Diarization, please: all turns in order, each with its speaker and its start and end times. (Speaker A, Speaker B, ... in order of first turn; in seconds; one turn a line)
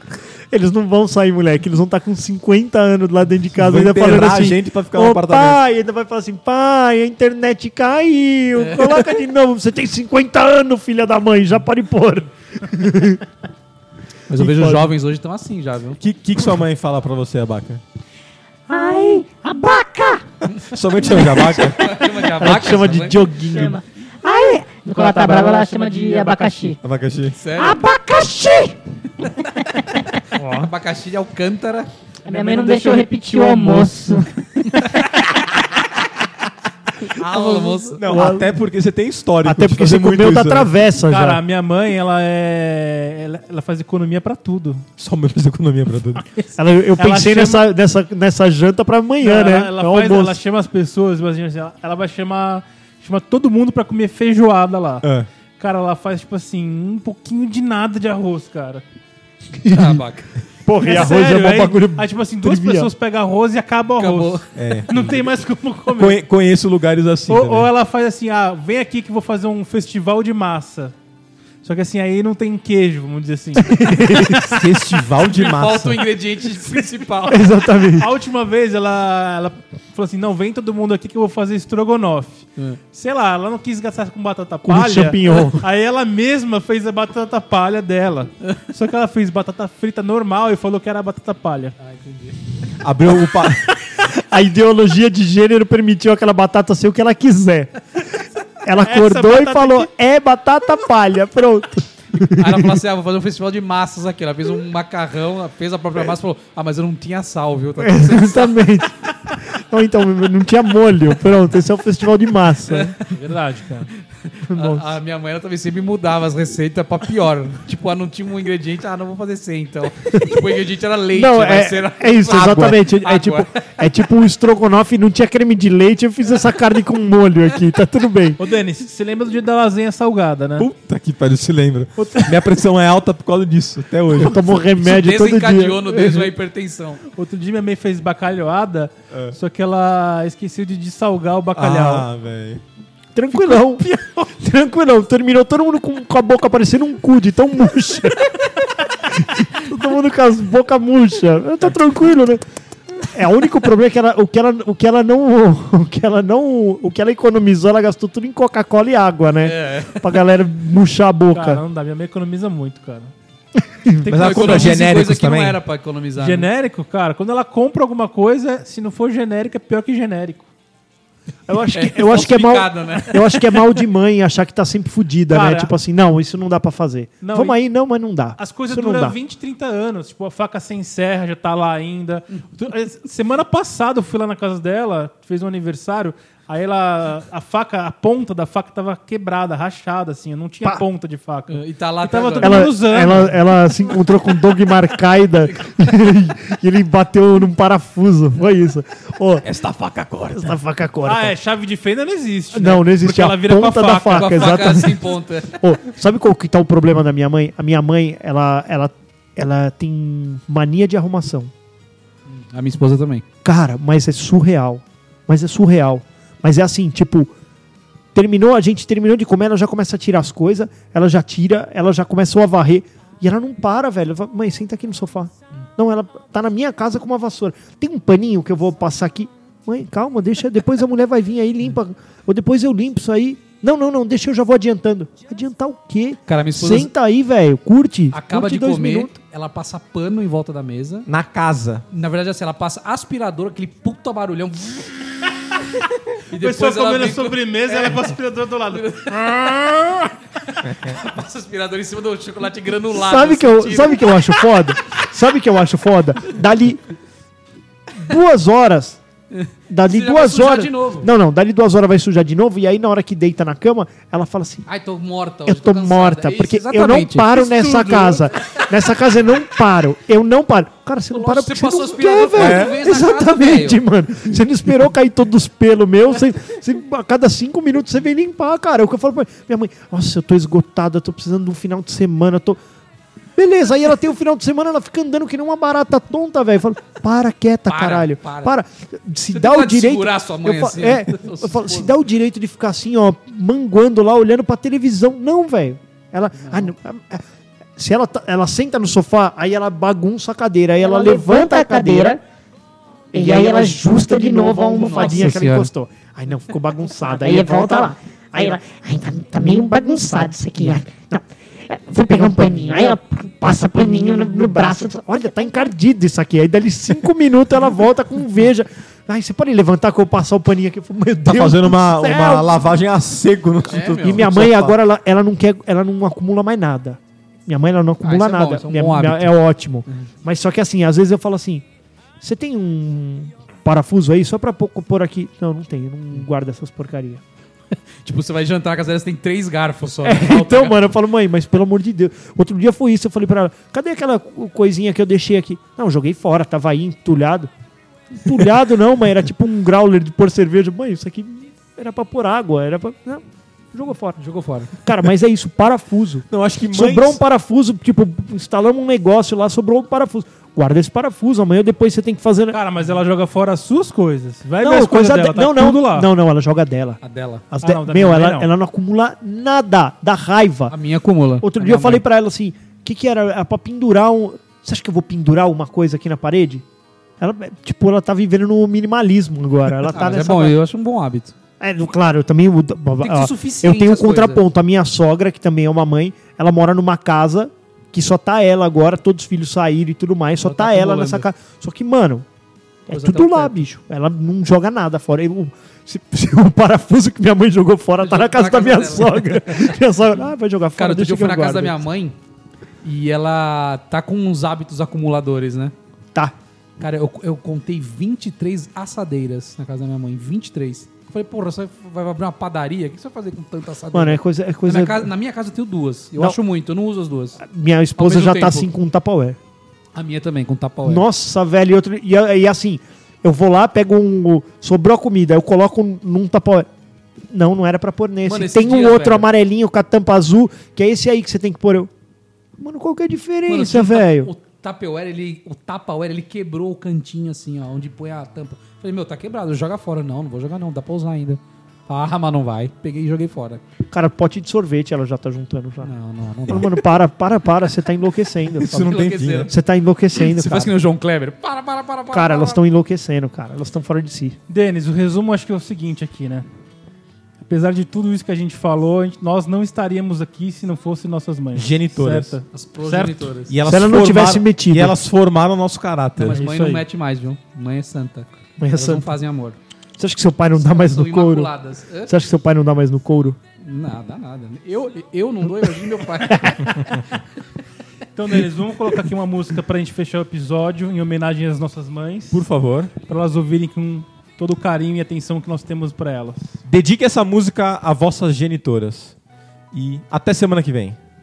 Speaker A: 0.5-13.2
Speaker B: 3.6-5.6
Speaker C: 8.6-9.1
Speaker C: 14.3-16.0
Speaker B: 14.4-14.9
Speaker B: 16.0-17.8
Speaker D: 18.7-20.2
Speaker B: 20.7-21.9
Speaker C: 21.6-23.3
Speaker A: 22.4-23.8
Speaker D: 23.6-26.8
Speaker B: 26.8-27.4
Speaker C: 27.4-27.8
Speaker D: 27.6-28.8
Speaker A: 30.4-30.7
Speaker C: 30.5-31.9
Speaker D: 32.3-34.3
Speaker E: 32.3-33.6
Speaker C: 37.2-38.0
Speaker A: 37.4-38.5
Speaker B: 38.0-40.7
Speaker A: 39.5-41.4
Speaker E: 41.0-44.9
Speaker B: 45.0-46.2
Speaker A: 46.6-50.4
Speaker E: 47.0-47.7
Speaker E: 49.2-55.1
Speaker E: 55.6-58.8
Speaker A: 59.6-60.0
Speaker C: 59.7-60.3
Speaker A: 60.7-62.9
Speaker E: 60.8-66.2
Speaker C: 64.0-64.4
Speaker B: 64.5-65.3
Speaker B: 65.9-67.7
Speaker E: 67.3-71.0
Speaker E: 71.6-73.8
Speaker A: 73.7-74.6
Speaker B: 74.3-76.0
Speaker C: 75.3-77.5
Speaker A: 77.3-78.1
Speaker E: 78.0-91.8
Speaker A: 84.7-85.7
Speaker C: 91.8-92.4
Speaker B: 92.8-93.8
Speaker A: 94.1-97.8
Speaker A: 98.6-102.7
Speaker E: 98.8-99.9
Speaker C: 102.2-108.6
Speaker A: 107.8-113.0
Speaker C: 112.7-113.0
Speaker E: 113.0-113.9
Speaker C: 114.3-123.5
Speaker A: 114.5-114.9
Speaker A: 121.2-128.4
Speaker B: 122.3-122.8
Speaker E: 128.4-130.7
Speaker B: 130.6-134.6
Speaker A: 134.2-136.3
Speaker C: 134.8-137.0
Speaker E: 137.1-142.1
Speaker B: 139.1-139.4
Speaker B: 141.6-142.6
Speaker A: 143.2-152.4
Speaker E: 143.8-144.1
Speaker A: 153.0-161.6
Speaker C: 159.4-160.1
Speaker E: 161.3-163.1
Speaker E: 164.0-164.8
Speaker B: 164.1-165.6
Speaker C: 164.2-166.5
Speaker E: 166.2-170.5
Speaker A: 171.5-179.2
Speaker C: 171.7-173.4
Speaker E: 175.3-175.8
Speaker E: 177.2-177.6
Speaker E: 178.4-193.6
Speaker C: 191.5-192.7
Speaker A: 192.4-199.4
Speaker B: 199.4-200.6
Speaker A: 200.3-201.4
Speaker E: 201.1-204.7
Speaker A: 202.5-211.5
Speaker C: 204.1-205.6
Speaker C: 212.3-213.2
Speaker A: 213.4-217.3
Speaker A: 218.1-239.2
Speaker C: 236.3-236.9
Speaker C: 238.1-241.1
Speaker B: 241.1-241.8
Speaker C: 241.9-244.9
Speaker C: 246.3-248.1
Speaker E: 246.3-250.0
Speaker C: 248.7-249.8
Speaker C: 250.7-254.2
Speaker A: 252.9-256.8
Speaker A: 257.9-259.0
Speaker C: 259.3-261.1
Speaker A: 259.7-264.6
Speaker C: 264.7-267.8
Speaker A: 265.5-282.6
Speaker E: 267.7-268.1
Speaker C: 271.1-273.8
Speaker B: 272.4-272.8
Speaker A: 283.4-297.2
Speaker C: 287.7-288.5
Speaker C: 289.3-291.9
Speaker C: 296.4-296.7
Speaker A: 297.8-302.1
Speaker D: 300.9-302.2
Speaker D: 303.1-305.3
Speaker A: 303.2-308.6
Speaker C: 304.9-305.7
Speaker D: 307.2-311.0
Speaker D: 311.7-315.2
Speaker A: 312.7-322.5
Speaker B: 321.3-324.8
Speaker C: 323.7-324.4
Speaker A: 324.0-331.6
Speaker C: 328.0-329.4
Speaker A: 332.2-337.2
Speaker C: 338.0-340.8
Speaker A: 340.0-347.5
Speaker A: 348.2-353.2
Speaker A: 353.7-354.2
Speaker C: 354.2-354.7
Speaker A: 354.8-362.6
Speaker B: 356.3-357.2
Speaker E: 362.5-366.1
Speaker A: 364.6-367.0
Speaker C: 367.0-367.4
Speaker A: 367.5-370.7
Speaker E: 367.6-368.5
Speaker C: 370.7-372.0
Speaker A: 371.4-376.6
Speaker A: 377.2-380.6
Speaker C: 379.9-381.3
Speaker A: 381.6-392.2
Speaker C: 383.0-384.4
Speaker C: 390.4-391.3
Speaker A: 392.9-401.8
Speaker C: 392.9-393.6
Speaker C: 398.0-399.8
Speaker C: 400.8-402.2
Speaker C: 402.8-405.7
Speaker C: 406.8-417.4
Speaker A: 413.9-415.1
Speaker A: 417.4-419.4
Speaker C: 418.0-418.7
Speaker C: 419.9-421.1
Speaker A: 420.9-426.7
Speaker A: 427.3-431.9
Speaker C: 428.2-429.3
Speaker A: 432.6-434.3
Speaker C: 433.5-443.6
Speaker A: 443.9-445.9
Speaker C: 445.8-446.7
Speaker A: 446.5-448.7
Speaker B: 448.6-449.5
Speaker C: 448.7-449.5
Speaker A: 449.5-450.7
Speaker C: 450.2-452.6
Speaker A: 452.1-454.4
Speaker E: 454.5-456.5
Speaker E: 457.4-463.3
Speaker B: 461.6-462.4
Speaker C: 462.5-463.6
Speaker B: 463.5-466.4
Speaker A: 463.7-465.0
Speaker C: 466.2-469.6
Speaker E: 466.3-466.9
Speaker A: 468.6-469.1
Speaker A: 470.0-471.5
Speaker C: 470.6-472.1
Speaker A: 472.1-473.4
Speaker C: 473.6-476.9
Speaker A: 476.3-477.0
Speaker E: 478.2-482.4
Speaker B: 482.3-482.9
Speaker E: 483.0-486.6
Speaker B: 486.7-489.2
Speaker B: 489.7-491.0